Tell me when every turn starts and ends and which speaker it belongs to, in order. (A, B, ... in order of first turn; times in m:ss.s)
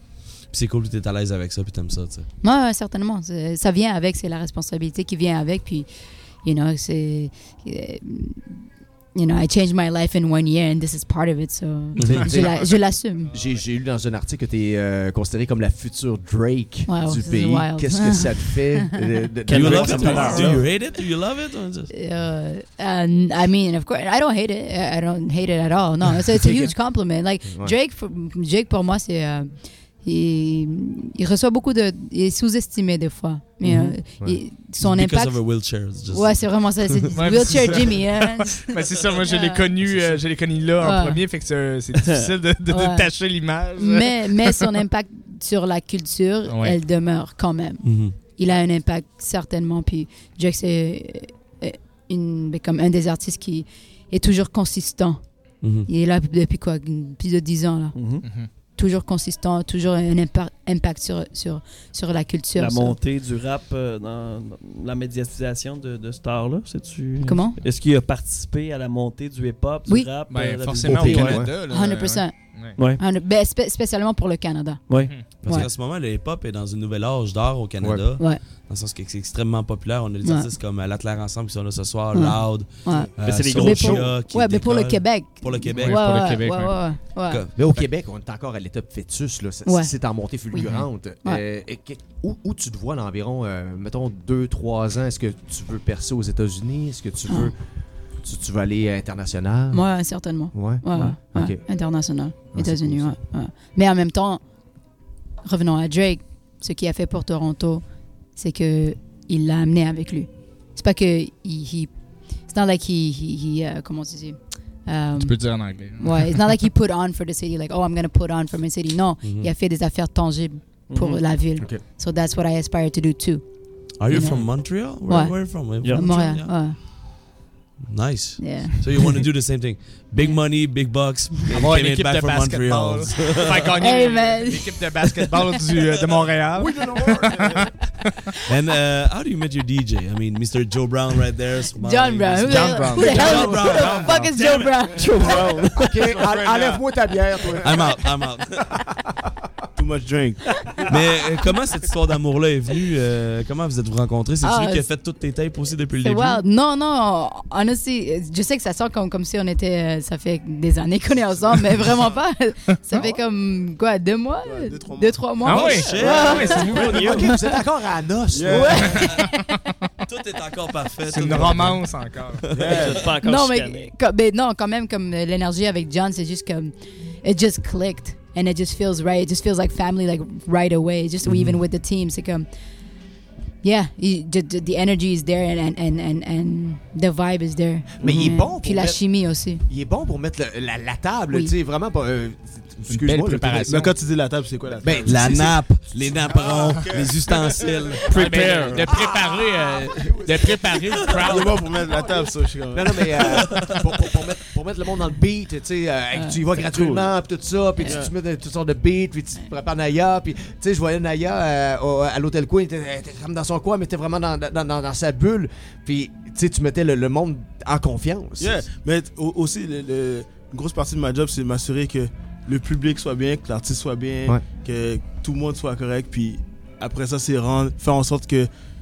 0:00.5-0:02.3 A
0:02.4-0:13.3 B
0:12.0-0:12.4 A
0:12.2-0:12.6 C
0:13.3-0:20.7 C
0:16.9-0:18.9 B
0:19.5-0:20.6 D
0:19.5-0:21.9 A
0:21.9-0:35.6 B
0:27.5-0:27.7 C
0:33.6-0:33.9 D
0:34.8-0:37.1 A
0:36.1-0:39.7 B
0:37.1-0:44.6 E
0:40.8-0:41.2 B
0:42.7-0:43.1 B
0:43.8-0:55.2 B
0:46.5-0:46.8 E
0:47.8-0:48.2 A
0:55.6-0:55.9 A
0:55.8-0:58.2 B
0:57.9-0:58.2 D
0:58.2-0:58.5 E
0:58.8-1:03.0 B
1:02.6-1:11.4 D
1:07.2-1:07.6 B
1:09.9-1:10.2 B
1:10.3-1:12.8 E
1:10.8-1:11.6 C
1:11.5-1:15.7 B
1:12.8-1:13.0 D
1:14.9-1:15.1 D
1:15.0-1:15.3 E
1:15.4-1:26.0 A
1:17.8-1:18.1 C
1:20.2-1:20.5 B
1:22.1-1:27.4 B
1:23.2-1:24.1 D
1:25.8-1:27.0 E
1:27.2-1:27.8 A
1:27.5-1:37.6 C
1:29.7-1:31.4 B
1:38.2-1:39.8 C
1:39.7-1:44.4 B
1:40.5-1:41.6 C
1:42.5-1:43.2 C
1:45.4-2:06.8 B
1:55.2-1:56.4 E
1:59.2-1:59.5 A
2:00.9-2:01.2 D
2:04.0-2:06.5 A
2:05.8-2:06.1 D
2:07.9-2:13.8 A
2:08.4-2:09.3 B
2:10.2-2:10.4 B
2:11.5-2:17.8 E
2:13.8-2:14.9 B
2:16.6-2:17.6 C
2:18.5-2:24.7 A
2:21.8-2:25.2 B
2:22.4-2:24.3 E
2:24.4-2:26.0 D
2:25.8-2:28.1 C
2:25.9-2:26.8 F
2:27.6-2:28.6 A
2:29.8-2:30.6 F
2:30.9-2:36.4 A
2:34.4-2:34.9 B
2:36.0-2:47.6 B
2:44.4-2:45.4 F
2:45.4-2:47.1 E
2:45.4-2:47.2 A
2:46.0-2:47.2 D
2:46.7-2:49.0 C
2:48.3-2:49.0 F
2:48.5-2:49.6 B
2:48.9-2:49.2 A
2:50.1-2:52.9 A
2:51.1-2:52.5 E
2:52.5-2:53.1 F
2:52.6-2:53.9 D
2:53.2-3:02.5 B
3:03.6-3:09.6 B
3:08.0-3:13.9 C
3:08.0-3:08.3 D
3:12.9-3:13.9 E
3:13.6-3:15.5 F
3:14.8-3:15.6 C
3:15.0-3:18.2 A
3:16.2-3:18.0 F
3:18.1-3:18.9 D
3:18.1-3:21.6 E
3:18.9-3:38.6 C
3:21.1-3:23.5 F
3:23.3-3:23.8 A
3:26.2-3:26.4 B
3:38.4-3:48.5 F